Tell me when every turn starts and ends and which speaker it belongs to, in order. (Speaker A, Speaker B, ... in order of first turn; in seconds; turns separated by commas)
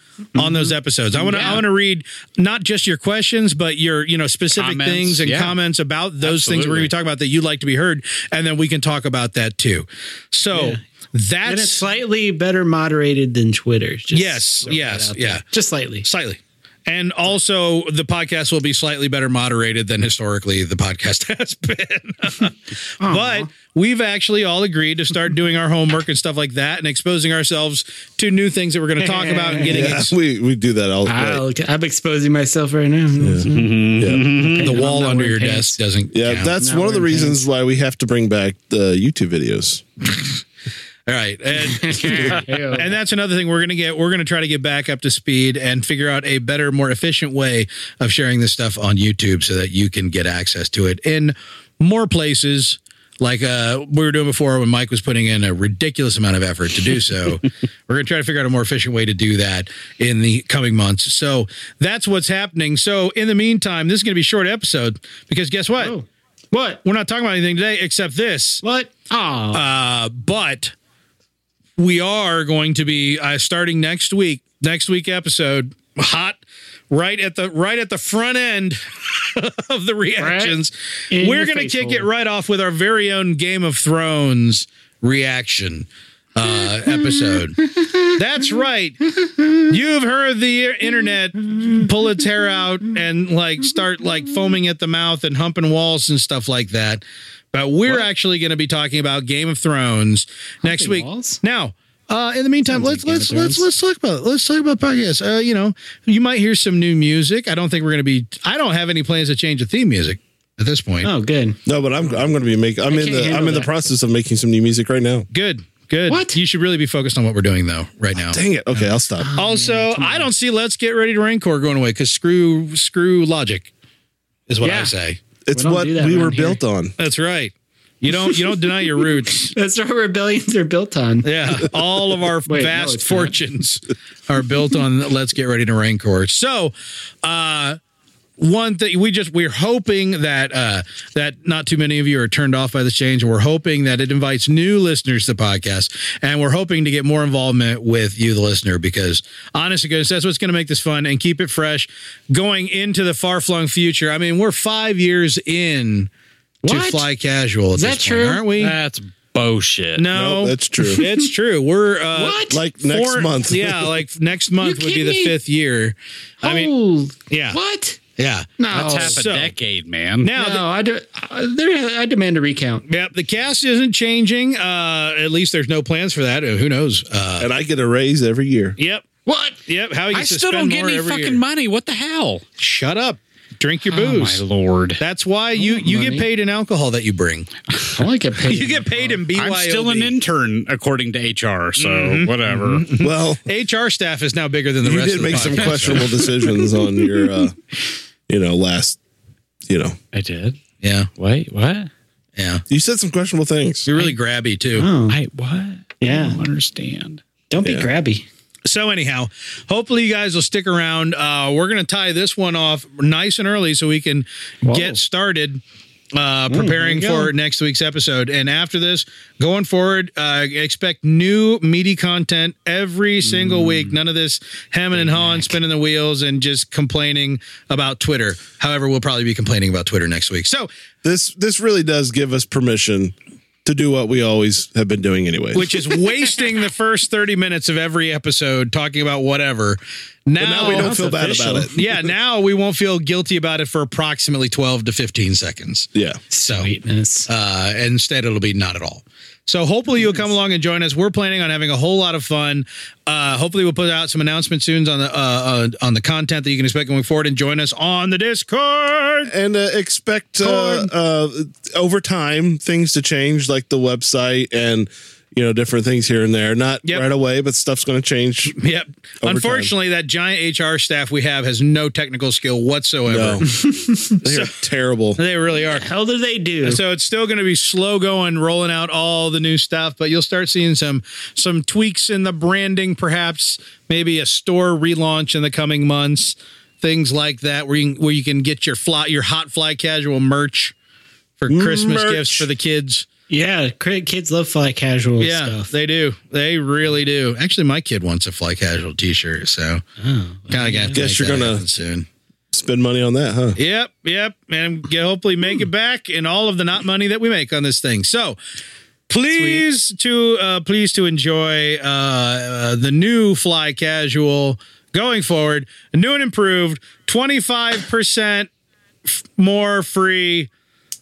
Speaker A: 0.3-11.8, Speaker B: 0.4-1.6, Speaker C: 4.5-5.6, Speaker C: 6.2-6.9, Speaker B: 10.5-10.8, Speaker B: 11.4-16.1, Speaker A: 14.1-15.4, Speaker A: 16.0-30.1, Speaker B: 23.0-23.5, Speaker B: 29.0-29.9, Speaker D: 29.7-31.4, Speaker B: 31.1-35.8, Speaker D: 33.2-34.4, Speaker C: 33.5-34.8, Speaker A: 34.6-36.5, Speaker D: 36.1-39.8, Speaker B: 36.5-37.4, Speaker A: 41.1-65.9, Speaker B: 41.6-43.0, Speaker B: 65.8-66.8, Speaker A: 66.8-68.6, Speaker B: 68.6-69.6, Speaker A: 69.5-70.7, Speaker A: 71.8-87.6, Speaker B: 80.2-82.1, Speaker B: 87.6-88.0, Speaker A: 88.1-89.0, Speaker A: 89.6-111.1, Speaker B: 100.6-101.4, Speaker B: 102.7-103.7, Speaker B: 111.0-111.6, Speaker D: 111.7-115.3, Speaker B: 112.9-113.7, Speaker A: 115.3-123.7, Speaker B: 116.1-116.4, Speaker D: 118.1-119.3, Speaker B: 119.2-120.3, Speaker A: 124.5-125.2, Speaker B: 124.6-124.9, Speaker D: 125.5-126.9, Speaker B: 125.5-126.6, Speaker A: 127.0-129.5, Speaker B: 129.5-131.3, Speaker A: 131.2-137.8, Speaker B: 132.4-133.3, Speaker A: 138.4-156.1, Speaker B: 156.6-157.1, Speaker A: 156.6-158.8, Speaker B: 157.7-158.4, Speaker C: 158.6-160.1, Speaker A: 160.0-166.7, Speaker D: 160.1-161.1, Speaker B: 160.8-161.2, Speaker B: 162.1-162.6, Speaker D: 162.5-163.9, Speaker B: 164.6-165.3, Speaker B: 166.4-168.0, Speaker A: 167.3-167.6, Speaker A: 168.2-169.5, Speaker B: 168.6-169.2, Speaker C: 168.7-170.3, Speaker A: 170.2-170.7, Speaker B: 170.3-172.8, Speaker A: 172.9-177.5, Speaker D: 177.4-178.8, Speaker A: 178.8-179.1, Speaker A: 179.7-181.4, Speaker C: 180.1-182.4, Speaker A: 182.6-184.4, Speaker C: 183.9-185.0, Speaker A: 185.0-187.5, Speaker B: 185.6-186.3, Speaker B: 187.9-189.2, Speaker A: 188.4-190.1, Speaker C: 189.3-192.8, Speaker A: 191.8-196.1, Speaker D: 193.0-193.4, Speaker D: 194.8-197.6, Speaker C: 195.3-196.7, Speaker D: 198.3-199.0, Speaker D: 199.7-200.0, Speaker C: 200.1-200.6, Speaker A: 200.8-201.1, Speaker C: 201.2-201.9, Speaker A: 202.3-202.6, Speaker D: 202.7-203.9, Speaker A: 203.9-204.9, Speaker B: 204.7-205.2, Speaker C: 205.1-207.2, Speaker B: 206.0-206.4, Speaker B: 207.5-208.3, Speaker D: 207.6-207.9, Speaker A: 208.7-215.6, Speaker B: 214.6-215.0, Speaker A: 216.1-230.7, Speaker B: 216.5-217.3, Speaker B: 223.2-224.0, Speaker D: 231.0-235.8, Speaker A: 235.5-246.7, Speaker D: 240.4-241.7, Speaker B: 240.6-241.7, Speaker D: 245.9-246.2, Speaker B: 246.3-247.3, Speaker A: 247.3-259.3, Speaker D: 259.3-268.6, Speaker A: 260.4-260.9, Speaker A: 268.5-273.5, Speaker D: 269.2-269.7, Speaker D: 273.1-273.5, Speaker B: 273.6-274.2, Speaker D: 274.1-275.2, Speaker A: 274.2-274.5, Speaker A: 275.2-275.9, Speaker B: 275.7-276.8, Speaker A: 276.6-290.7, Speaker A: 291.4-293.1, Speaker D: 291.5-292.4, Speaker B: 293.3-295.7, Speaker A: 295.2-299.8, Speaker B: 300.0-301.0, Speaker A: 300.5-302.1, Speaker D: 300.9-301.6, Speaker D: 302.5-303.6, Speaker A: 303.6-308.4, Speaker A: 309.1-318.5, Speaker B: 309.3-309.6, Speaker A: 319.2-320.5